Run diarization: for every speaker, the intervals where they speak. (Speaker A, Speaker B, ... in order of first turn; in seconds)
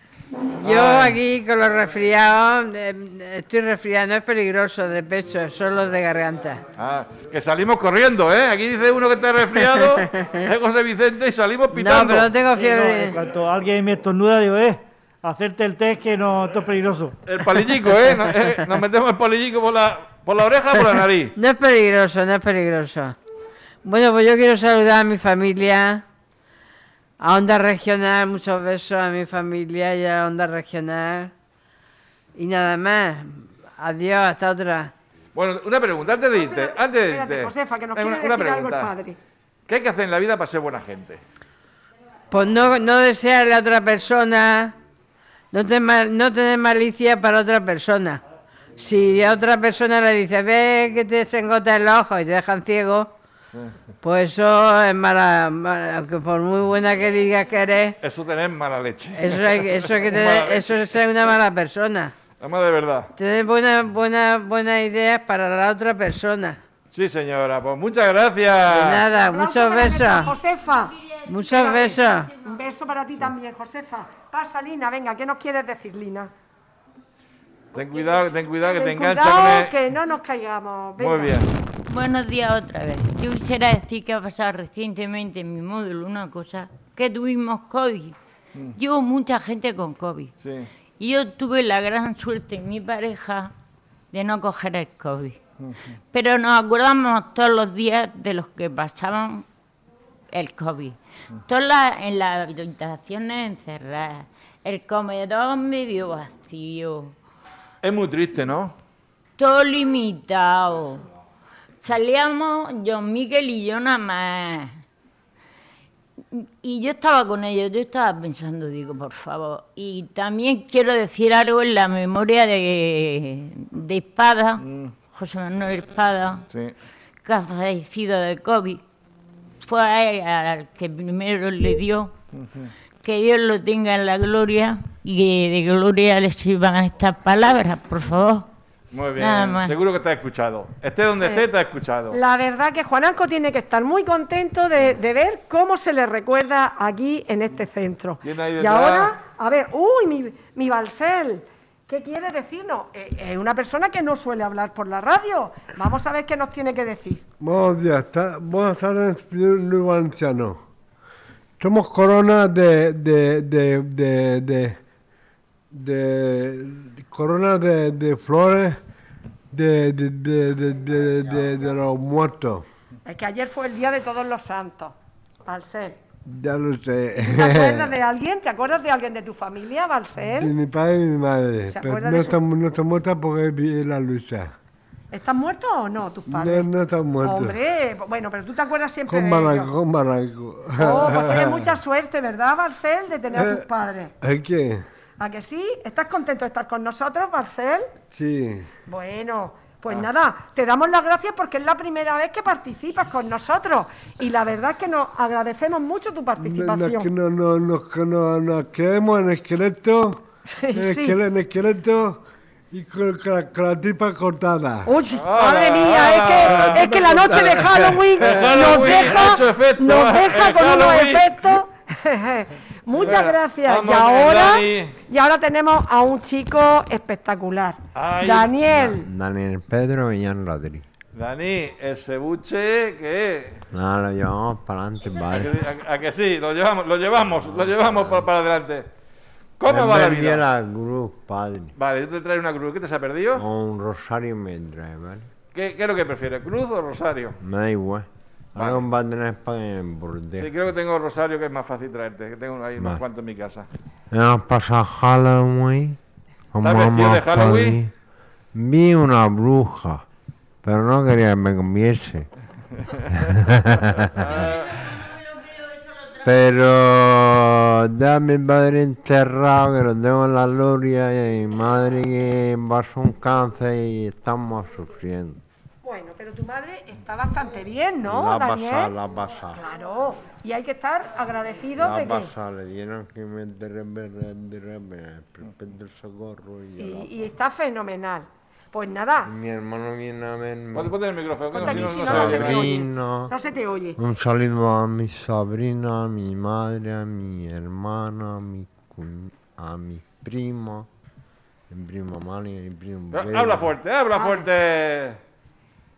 Speaker A: 0.6-6.6, 11.7-13.2, 21.4-23.1, 23.8-26.0, 27.2-31.3, 32.3-34.9, 42.3-44.8, 45.5-48.2, 48.8-53.1, 54.0-57.9, 59.2-62.1, 63.2-66.6, 68.7-70.3, 71.2-72.3
Speaker B: 0.6-1.2, 6.8-12.4, 17.2-21.3, 35.3-38.9, 39.7-41.2, 58.0-61.2, 62.4-63.1, 66.9-69.1, 77.7-79.7, 81.0-81.5, 90.4-90.7, 107.8-108.7, 124.6-125.0, 132.3-132.7, 138.9-142.2, 148.2-149.2, 215.1-217.4, 218.2-221.4, 222.9-224.9, 227.9-228.5, 231.1-233.6, 235.3-238.9, 239.6-240.5, 241.8-243.4, 245.5-247.4, 248.5-248.8, 250.4-253.7, 256.6-257.8, 264.0-264.9, 290.8-292.7, 303.1-305.2
Speaker C: 12.4-17.2
Speaker D: 36.3-39.2, 69.3-71.0, 71.6-76.3, 78.6-81.4, 141.2-141.5, 142.1-157.2, 173.0-174.9, 175.4-176.0, 177.2-180.5, 181.7-182.3, 185.1-186.7, 187.2-189.7, 190.8-194.1, 195.2-197.9, 198.9-207.1, 210.5-211.2, 214.8-229.1, 275.8-278.9, 279.5-282.3, 286.8-289.3, 291.5-294.0, 304.1-304.5
Speaker E: 81.8-88.2, 88.8-90.3, 91.0-93.5, 94.1-95.4, 96.1-99.5, 100.3-107.1, 109.4-111.0, 111.8-114.8, 116.3-126.4, 127.2-128.8, 129.6-132.1, 133.0-138.5, 139.2-139.7, 265.4-266.1
Speaker F: 157.4-160.6, 161.6-164.8, 165.7-168.8, 169.5-172.7, 176.3-177.9, 180.4-184.5, 186.3-187.6, 189.1-191.7, 193.3-193.7, 194.2-194.8, 198.1-198.7, 206.4-210.2, 210.7-214.9, 216.4-219.0
Speaker G: 228.7-230.8, 233.7-235.6, 237.2-238.3, 239.7-241.7, 243.3-245.3, 247.4-250.5, 254.1-256.0, 256.5-257.9, 258.5-260.0, 260.6-262.3, 263.1-264.3, 266.2-275.4, 278.0-279.6, 281.8-287.1, 289.2-291.0, 291.6-293.3, 294.0-300.9, 301.7-303.7